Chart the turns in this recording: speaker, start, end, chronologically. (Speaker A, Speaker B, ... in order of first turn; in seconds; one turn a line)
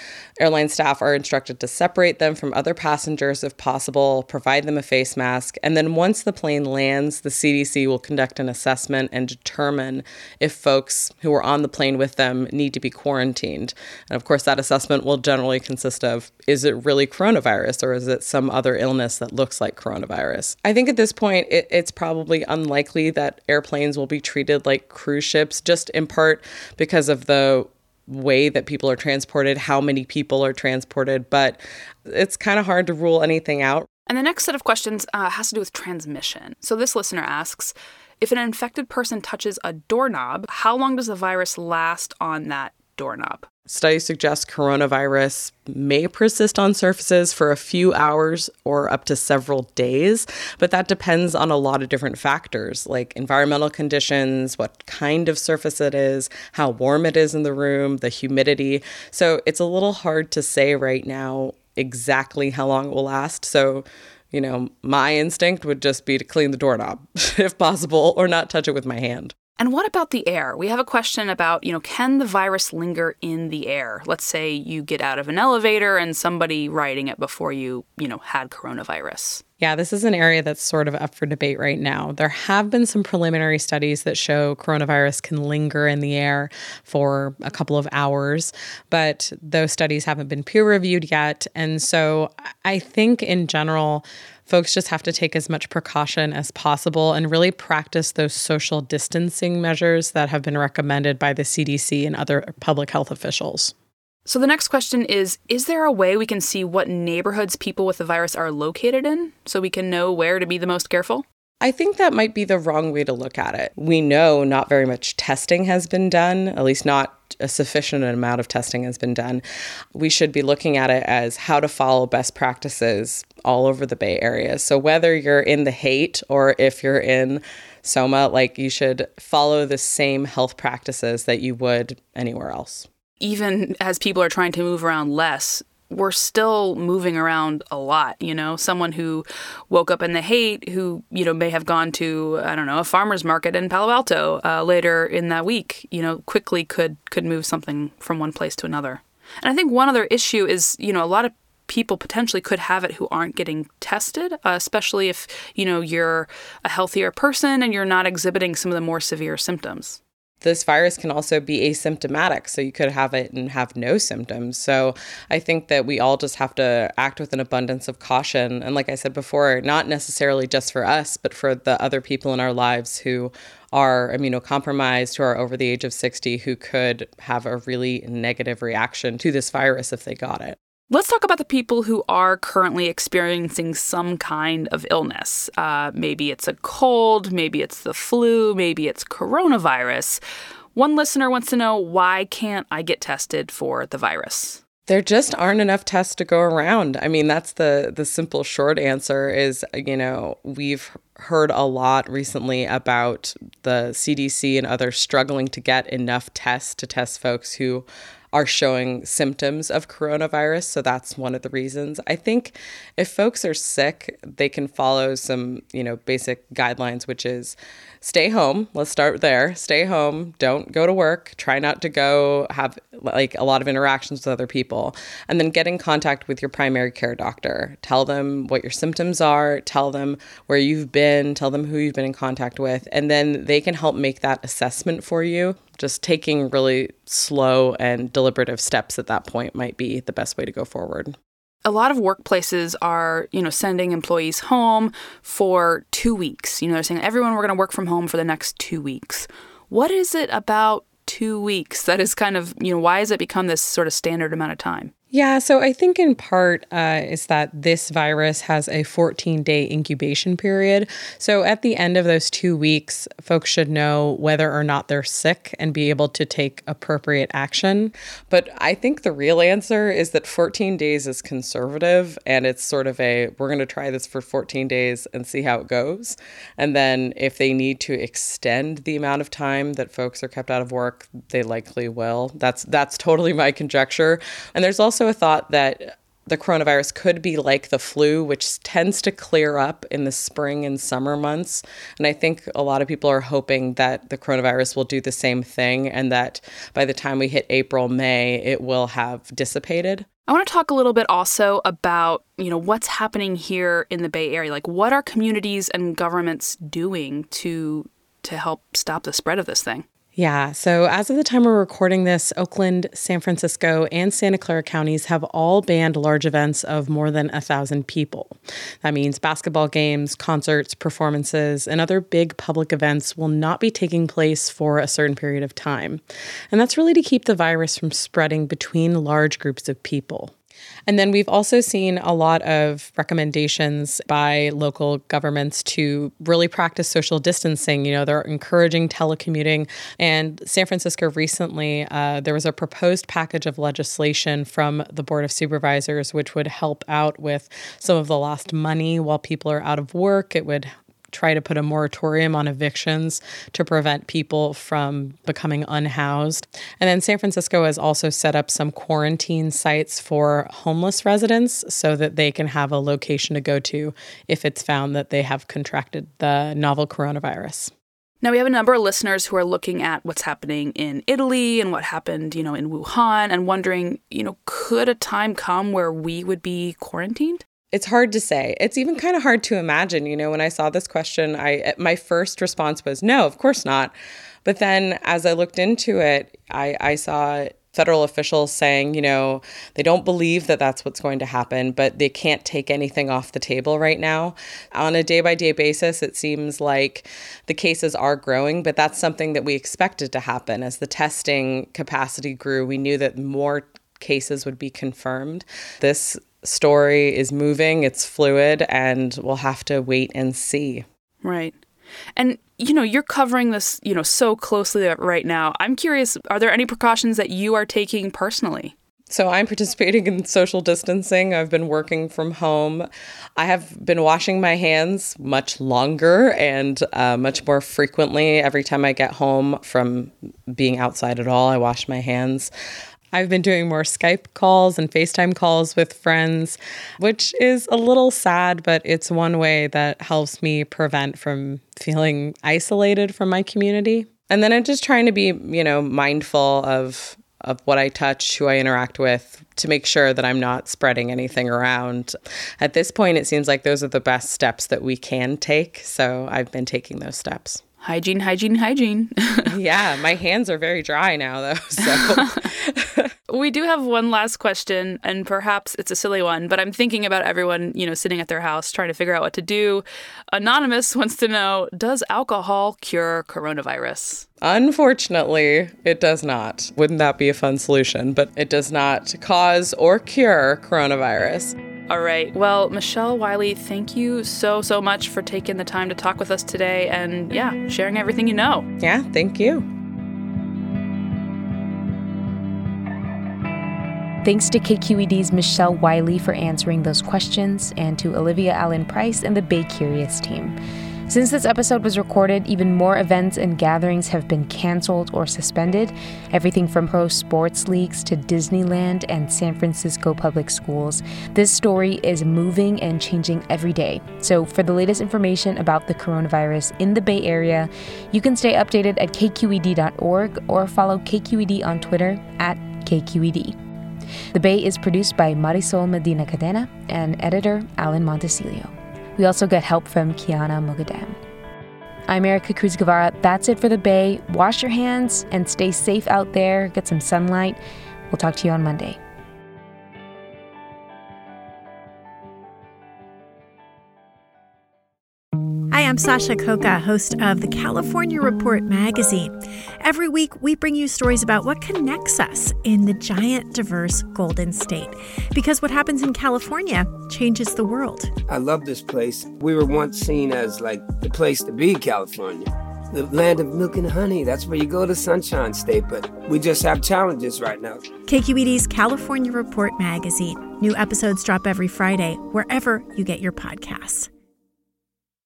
Speaker A: 0.4-33.9
Speaker B: 34.1-43.5
Speaker A: 43.7-69.3
Speaker B: 69.6-79.4
Speaker A: 79.6-103.7
Speaker B: 104.3-111.2
Speaker A: 111.6-119.4
Speaker A: 119.9-132.9
Speaker B: 133.2-160.0
Speaker A: 160.4-180.6
Speaker B: 180.9-190.2
Speaker B: 190.8-194.6
Speaker A: 194.9-241.2
Speaker B: 241.7-254.9
Speaker A: 255.1-300.1
Speaker B: 300.3-309.8
Speaker A: 310.2-330.3
Speaker A: 330.9-367.7
Speaker B: 368.2-377.4
Speaker A: 377.7-383.9
Speaker A: 384.4-410.8
Speaker B: 411.2-411.6
Speaker B: 412.2-418.8
Speaker A: 419.1-432.5
Speaker A: 433.1-457.6
Speaker B: 457.8-459.5
Speaker A: 459.5-463.1
Speaker B: 461.9-462.4
Speaker B: 463.3-474.3
Speaker A: 474.4-481.6
Speaker B: 481.9-488.7
Speaker A: 488.8-489.6
Speaker C: 494.2-500.5
Speaker C: 501.1-523.5
Speaker C: 524.3-531.1
Speaker C: 532.1-537.6
Speaker C: 538.1-539.0
Speaker D: 545.7-558.1
Speaker E: 558.3-567.8
Speaker D: 568.1-574.1